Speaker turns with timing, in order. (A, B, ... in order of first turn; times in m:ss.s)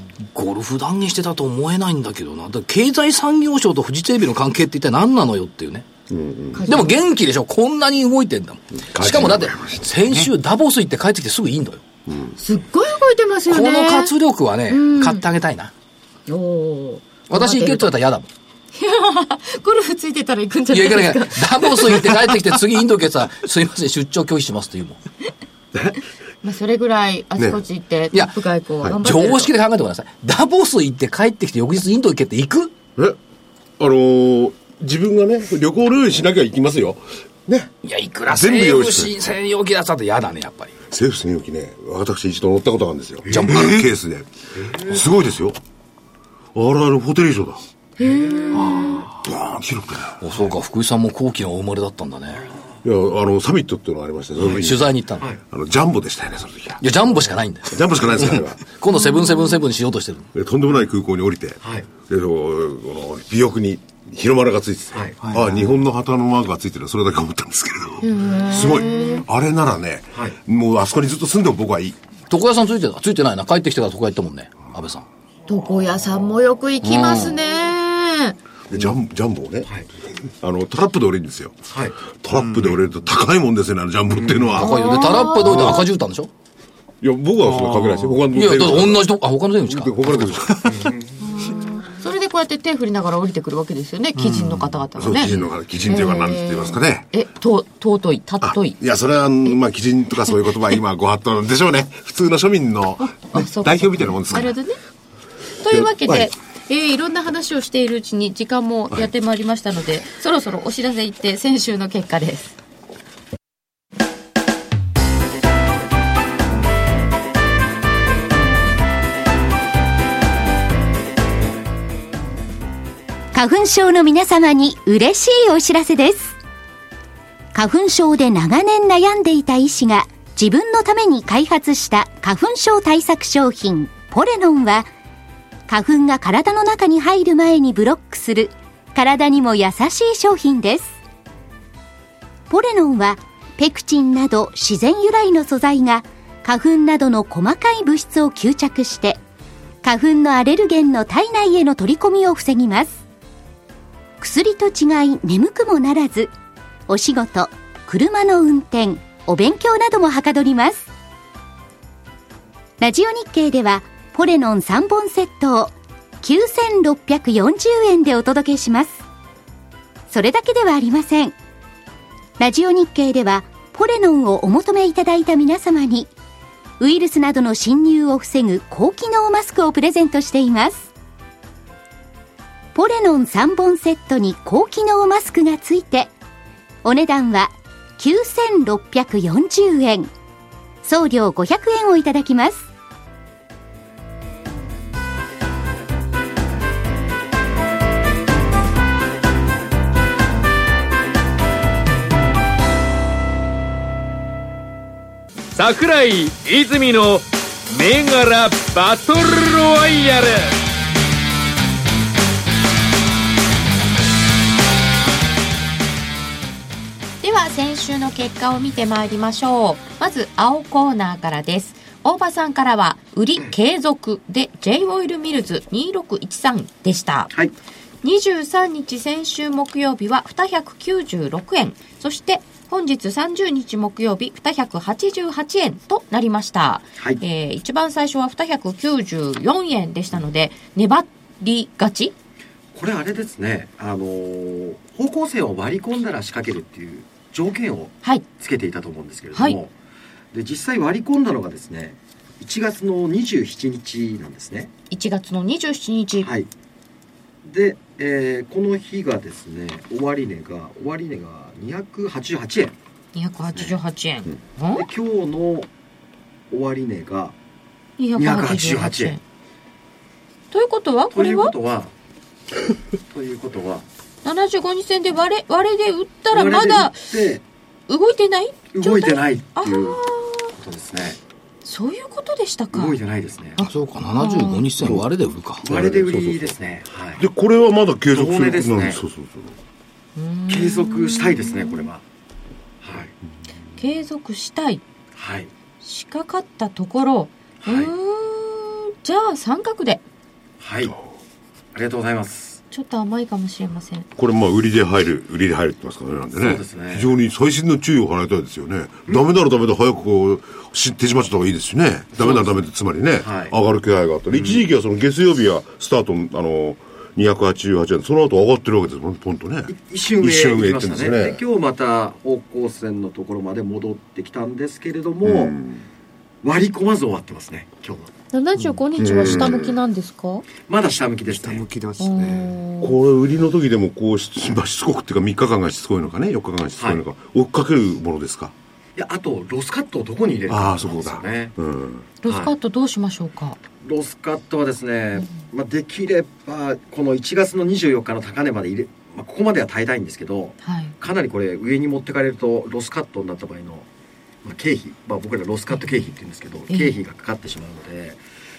0:00.3-0:05.9 A
0:06.1-0:06.7 B
0:06.5-0:07.0 C
0:06.7-0:11.8 A
0:08.9-0:10.3 B
0:12.1-0:12.4 B
0:12.4-0:14.1 C
0:13.5-0:15.7 A
0:14.7-0:15.2 C
0:16.3-0:18.0 C
0:17.3-0:18.3 A
0:18.7-0:22.3 C
0:20.7-0:25.0 A
0:26.4-0:29.5 C
0:28.1-0:32.7 A
0:33.8-0:37.7 B
0:37.8-0:40.7 A
0:38.3-0:39.1 B
0:40.9-0:45.6 B
0:43.3-0:43.9 A
0:46.6-0:47.6 B
0:48.0-0:49.0 C
0:48.0-0:49.0 D
0:48.5-0:50.2 B
0:50.2-0:52.4 A
0:52.3-0:52.8 D
0:52.8-0:54.9 B
0:54.4-0:54.7 D
0:54.5-0:55.3 A
0:55.4-0:56.8 B
0:56.8-1:00.3 A
0:57.7-0:58.6 B
0:58.9-0:59.6 C
1:00.3-1:12.0 B
1:01.6-1:01.9 D
1:04.9-1:05.4 D
1:08.0-1:09.3 C
1:12.3-1:15.1 A
1:15.5-1:18.4 C
1:16.8-1:17.4 A
1:18.7-1:19.7 B
1:20.4-1:24.7 B
1:21.7-1:22.0 D
1:24.1-1:24.6 D
1:24.6-1:26.3 A
1:24.6-1:25.8 C
1:25.4-1:25.8 B
1:27.0-1:29.1 B
1:27.5-1:28.1 E
1:28.3-1:30.4 A
1:29.7-1:30.7 B
1:30.6-1:31.2 D
1:31.2-1:38.8 C
1:34.2-1:34.5 E
1:35.0-1:37.1 B
1:38.4-1:44.6 B
1:43.0-1:44.8 C
1:45.6-1:52.6 C
1:45.7-1:46.3 B
2:03.3-2:06.4 F
2:07.5-2:14.9 F
2:15.7-2:21.0 F
2:22.5-2:29.2 F
2:29.8-2:33.0 F
2:34.2-2:36.3 F
2:36.9-2:40.9 F
2:42.8-2:49.0 F
2:50.1-2:51.4 F
2:52.4-2:56.1 F
2:56.8-3:00.9 F
3:02.8-3:06.1 F
3:06.8-3:10.1 F
3:10.8-3:12.6 F
3:25.5-3:30.6 G
3:37.2-3:47.3 C
3:48.0-4:02.2 C
4:02.7-4:09.7 D
4:10.3-4:14.7 D
4:14.9-4:16.3 C
4:16.2-4:16.5 D
4:17.4-4:22.8 D
4:23.2-4:24.9 C
4:24.8-4:25.7 D
4:26.5-4:27.4 D
4:28.0-4:29.2 C
4:28.2-4:29.2 D
4:30.5-4:31.5 C
4:31.1-4:31.9 D
4:33.1-4:33.8 D
4:34.2-4:37.0 C
4:36.3-4:37.4 D
4:37.9-4:40.5 C
4:38.7-4:40.0 D
4:40.6-4:41.2 D
4:41.6-4:43.0 C
4:42.7-4:43.6 D
4:43.6-4:44.7 C
4:43.6-4:45.6 A
4:44.8-4:45.0 B
4:45.6-4:46.6 B
4:45.6-4:47.2 D
4:47.2-4:49.5 B
4:48.1-4:49.0 D
4:50.2-4:51.9 C
4:50.5-4:52.0 D
4:52.8-4:53.1 D
4:53.8-4:54.8 C
4:55.2-4:55.5 D
4:55.8-5:00.0 C
4:57.6-4:57.9 D
5:00.6-5:01.0 D
5:01.7-5:02.6 D
5:02.7-5:04.1 C
5:04.2-5:21.4 B
5:06.3-5:07.1 D
5:13.2-5:13.5 D
5:14.3-5:14.6 D
5:19.7-5:25.6 D
5:25.2-5:25.8 B
5:26.4-5:28.1 D
5:28.3-5:30.5 C
5:29.0-5:29.8 B
5:30.7-5:31.6 D
5:31.3-5:32.6 E
5:32.0-5:33.0 C
5:32.8-5:38.5 B
5:39.0-5:41.5 D
5:40.5-5:42.0 B
5:42.2-5:43.6 C
5:42.2-5:42.5 D
5:43.8-5:53.9 D
5:50.6-5:50.9 C
5:54.4-5:58.2 D
5:56.7-5:57.0 C